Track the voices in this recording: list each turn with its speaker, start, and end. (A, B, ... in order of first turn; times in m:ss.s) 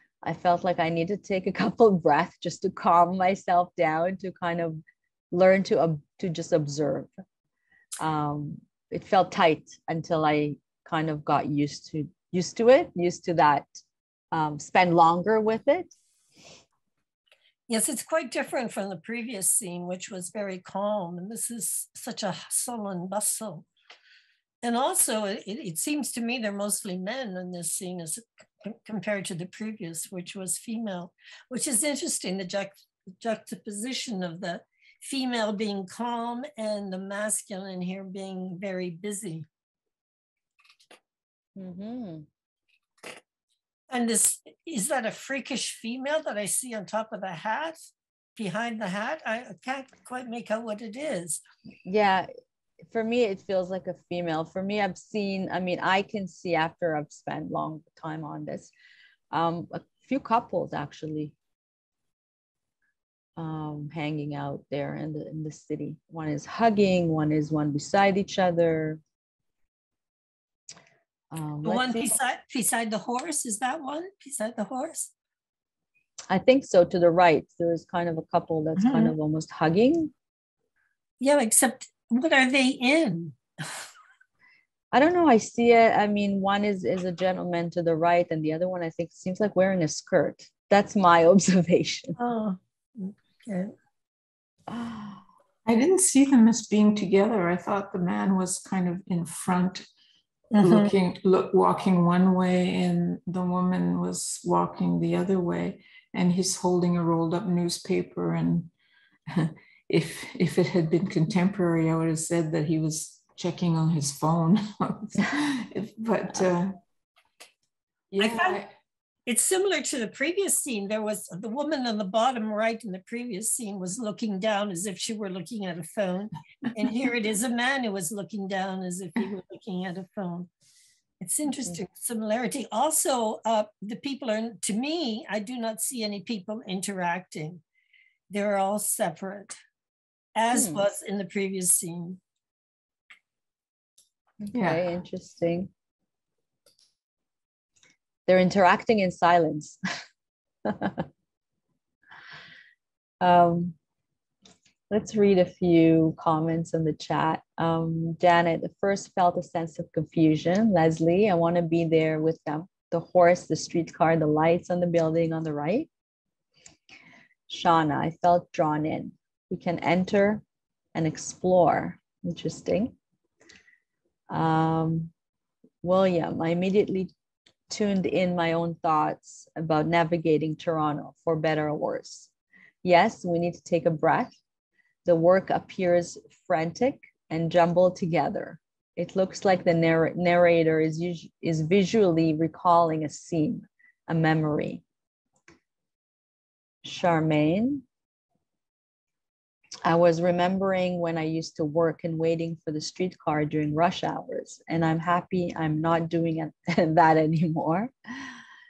0:00.2-0:07.1 A
0:08.0-0:13.7 A
0:14.3-0:15.9 A
0:17.7-0:23.7 B
0:24.6-0:39.4 B
0:41.6-0:42.3 A
0:43.9-0:51.4 B
0:51.8-0:52.3 A
0:52.9-0:58.7 A
0:59.3-1:01.3 A
1:03.4-1:09.0 A
1:11.3-1:12.2 A
1:11.6-1:15.1 B
1:16.3-1:20.1 A
1:21.2-1:23.4 B
1:24.9-1:32.1 A
1:32.2-1:33.7 B
1:34.7-1:35.2 A
1:35.6-1:39.8 C
1:40.5-1:40.9 B
1:40.6-1:48.7 C
1:49.3-1:56.8 C
1:58.1-1:58.7 C
1:58.2-1:58.6 B
1:59.2-2:10.5 B
2:11.2-2:17.6 B
2:18.3-2:19.6 B
2:20.4-2:22.2 B
2:20.5-2:20.8 A
2:24.4-2:25.7 A
2:24.5-2:24.8 C
2:28.3-2:29.8 A
2:30.6-2:31.0 A
2:33.2-2:33.7 A
2:34.9-2:45.9 A
2:47.5-2:50.4 A
2:50.9-2:52.9 A
2:54.3-2:55.1 A
2:55.8-2:57.1 A
2:57.7-3:02.3 A
3:02.8-3:04.3 A
3:05.0-3:14.8 A
3:16.8-3:17.8 A
3:19.8-3:28.4 A